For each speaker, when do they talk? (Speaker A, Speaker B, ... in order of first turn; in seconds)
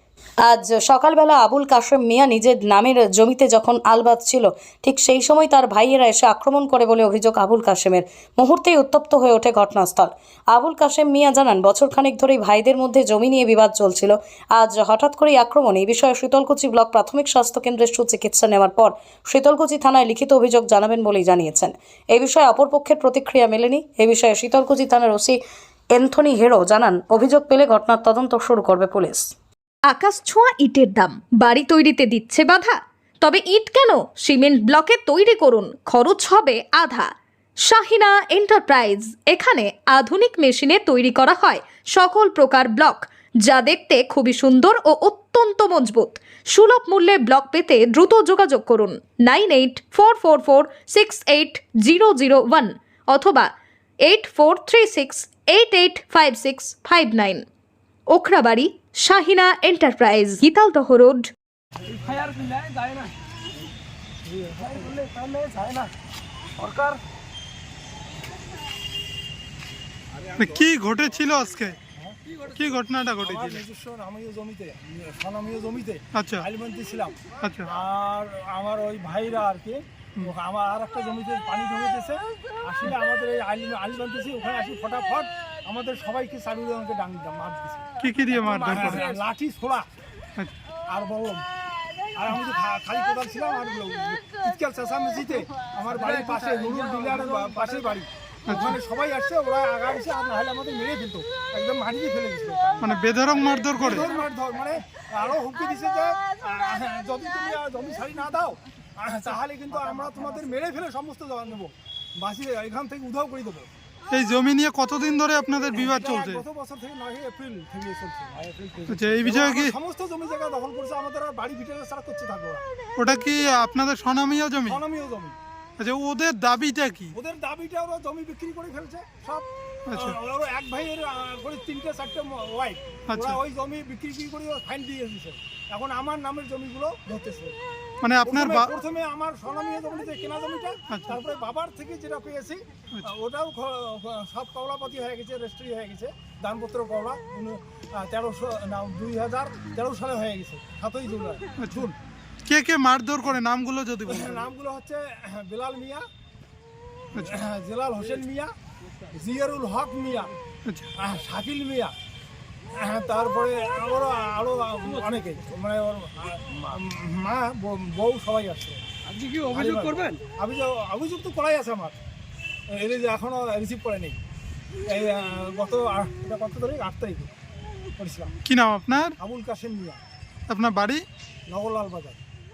Speaker A: 0.4-25.4, 25.9-29.3
Speaker B: 29.9-37.1, 37.6-53.5, 54.0-57.4, 58.1-61.3
Speaker C: 61.9-63.1, 64.9-65.7, 66.6-67.0, 88.5-89.1, 95.9-97.8, 169.1-170.2
Speaker D: 64.2-65.9, 73.2-87.9, 88.6-89.9, 90.9-91.4, 92.1-103.0, 103.7-113.7, 115.7-122.6, 124.7-125.3, 127.1-137.5, 138.2-151.9, 154.1-156.1, 157.2-158.5, 159.1-160.3, 161.0-161.9, 162.7-168.8, 169.5-172.0, 172.7-174.2, 174.9-177.3, 178.0-178.3, 179.2-180.0, 181.5-182.2
Speaker E: 70.3-71.8, 72.5-73.6, 76.1-76.4, 77.4-77.7, 88.0-89.0, 98.5-98.8, 102.8-104.1, 114.1-116.4, 118.9-119.7, 123.0-124.8, 125.8-127.1, 129.9-130.1, 133.1-133.4, 138.0-138.7, 140.9-141.2, 152.4-154.4, 178.4-179.1, 180.5-181.0